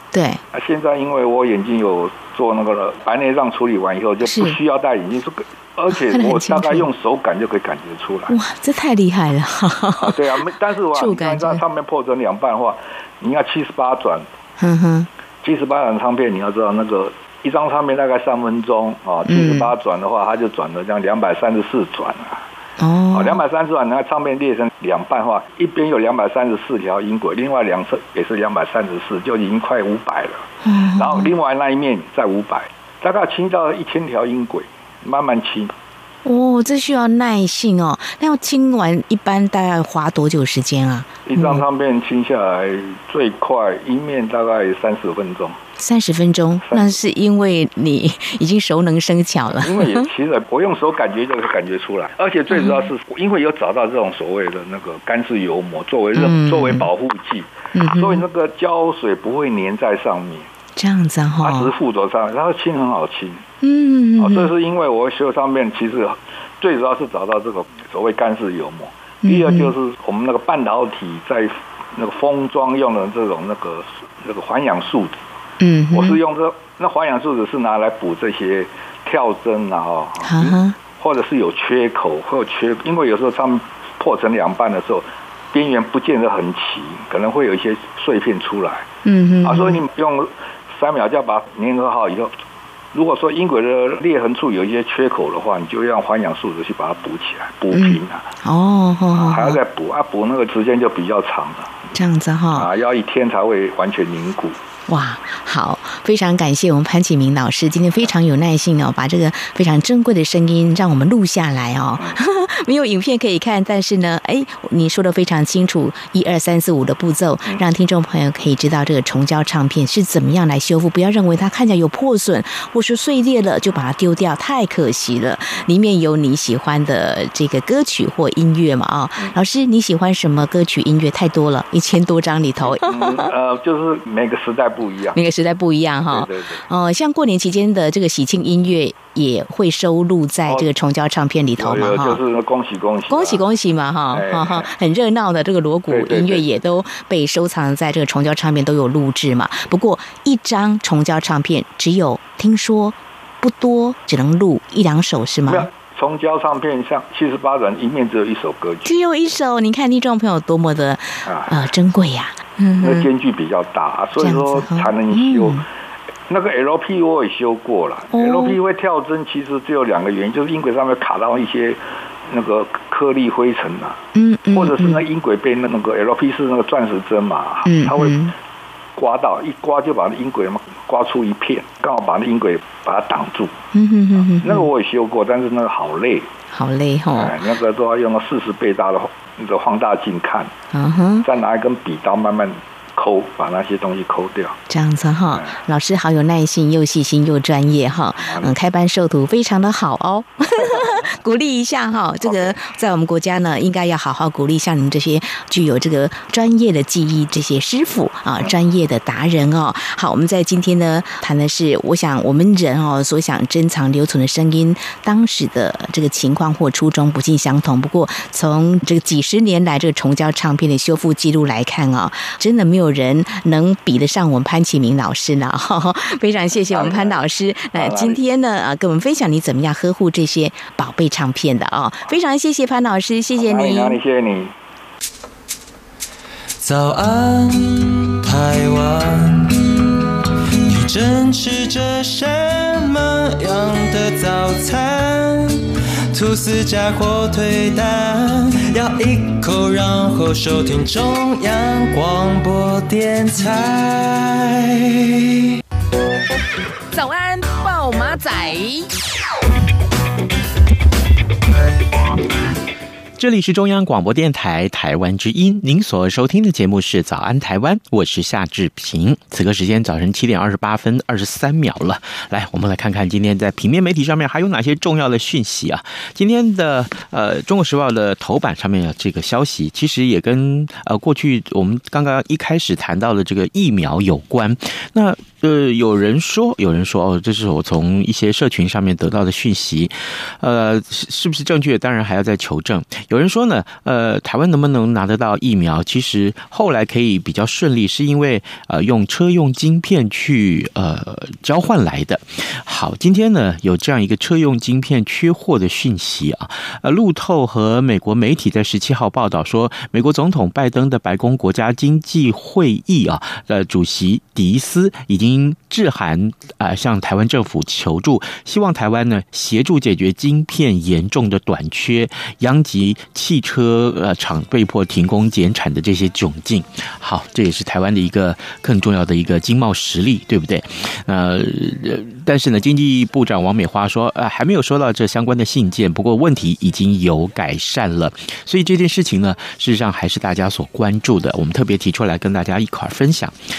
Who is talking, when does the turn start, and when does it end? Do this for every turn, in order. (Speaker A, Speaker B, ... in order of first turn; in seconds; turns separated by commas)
Speaker A: 0.1-0.4, Speaker B: 0.5-8.3, Speaker A: 4.2-4.6, Speaker A: 5.9-6.9, Speaker A: 8.3-10.2, Speaker B: 10.0-14.3, Speaker A: 10.9-11.6, Speaker A: 14.6-15.1, Speaker B: 15.4-22.4, Speaker A: 19.3-19.7, Speaker A: 22.8-23.4, Speaker B: 23.1-35.7, Speaker A: 30.6-31.3, Speaker A: 36.2-41.6, Speaker B: 41.2-45.6, Speaker A: 45.8-50.1, Speaker B: 46.6-47.0, Speaker B: 49.6-60.5, Speaker A: 52.5-52.9, Speaker A: 56.1-56.9, Speaker A: 57.7-58.2, Speaker A: 60.8-61.7, Speaker B: 61.4-63.4, Speaker A: 63.6-64.5, Speaker B: 64.2-75.2, Speaker A: 69.2-69.7, Speaker A: 75.6-76.2, Speaker B: 75.9-88.9, Speaker A: 80.2-80.7, Speaker A: 89.0-89.8, Speaker B: 89.4-92.3, Speaker B: 92.9-98.2, Speaker A: 97.7-99.6, Speaker B: 99.1-101.7, Speaker A: 101.9-102.7, Speaker B: 102.5-104.6, Speaker A: 104.9-133.3, Speaker B: 132.6-135.2, Speaker A: 135.1-142.2, Speaker B: 136.1-136.6, Speaker B: 141.6-143.4, Speaker A: 143.1-155.7, Speaker B: 144.1-144.7, Speaker B: 145.9-146.4, Speaker B: 155.5-158.9, Speaker A: 158.8-163.1, Speaker B: 161.2-161.7, Speaker B: 162.8-165.6, Speaker A: 164.2-165.6, Speaker B: 166.3-178.2, Speaker A: 168.1-168.6, Speaker A: 174.1-175.0, Speaker A: 177.7-178.3, Speaker B: 179.0-183.5, Speaker A: 183.7-184.7, Speaker B: 184.4-186.3, Speaker A: 186.5-187.3, Speaker B: 187.1-190.5, Speaker A: 190.7-191.3, Speaker B: 191.2-194.6, Speaker A: 194.7-234.0, Speaker B: 198.2-198.5, Speaker B: 200.7-201.1, Speaker B: 202.2-202.6, Speaker B: 226.7-227.2, Speaker B: 227.7-228.2, Speaker B: 233.4-234.5, Speaker C: 236.6-240.1, Speaker C: 240.7-255.4, Speaker D: 256.9-258.9, Speaker E: 263.2-343.3